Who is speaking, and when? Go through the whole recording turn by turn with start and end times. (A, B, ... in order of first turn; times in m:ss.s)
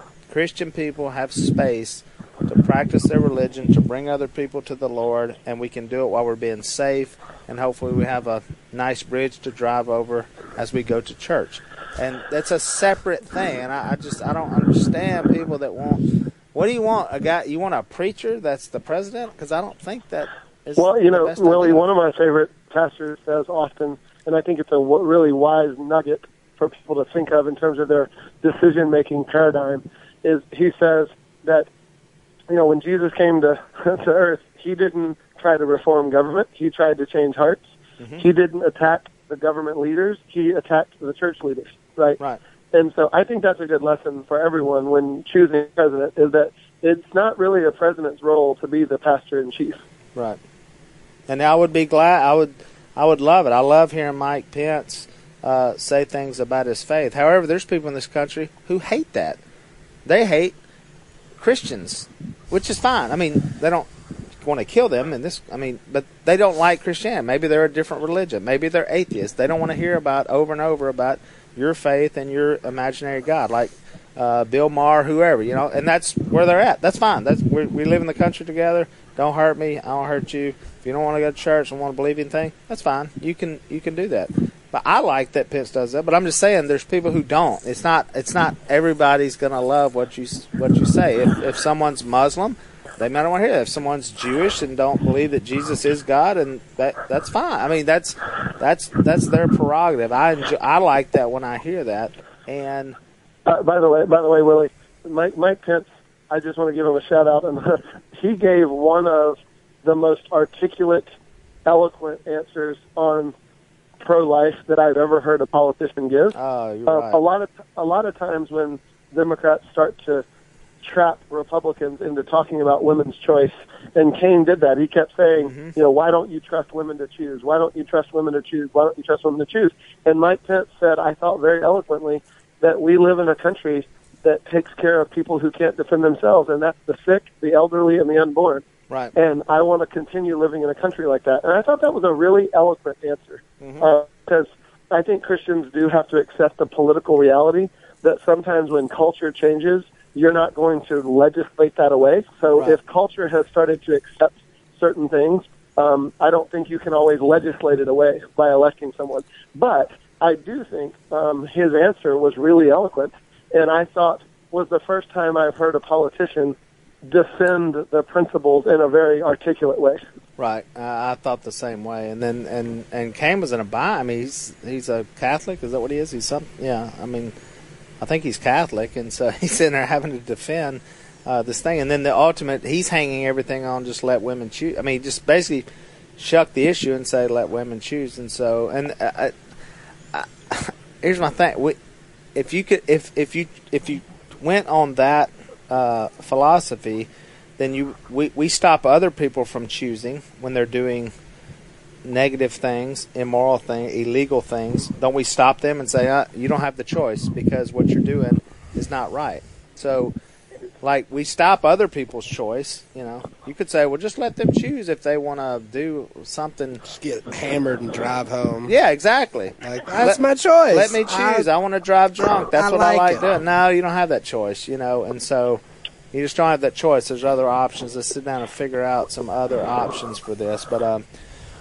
0:00.3-0:16.0 A
0:16.5-0:21.8 A
0:20.8-0:31.7 B
0:32.5-0:42.2 B
0:42.7-0:49.8 B
0:51.3-0:59.4 A
1:00.0-1:00.6 A
1:01.4-1:03.9 A
1:04.4-1:43.0 A
1:43.5-1:51.1 B
1:51.7-1:53.4 B
1:54.0-1:56.4 B
1:56.4-1:57.2 A
1:56.9-2:00.2 B
2:00.8-2:18.6 B
2:05.4-2:05.7 A
2:19.2-2:50.0 B
2:23.6-2:23.9 A
2:50.4-2:57.3 A
2:58.0-3:05.7 A
3:06.2-3:09.4 A
3:10.1-3:11.8 A
3:12.4-3:21.1 A
3:22.0-3:30.2 A
3:30.8-3:36.8 A
3:36.9-3:38.7 C
3:38.7-3:45.6 A
3:39.6-3:41.5 C
3:42.2-3:43.3 C
3:46.1-3:51.0 A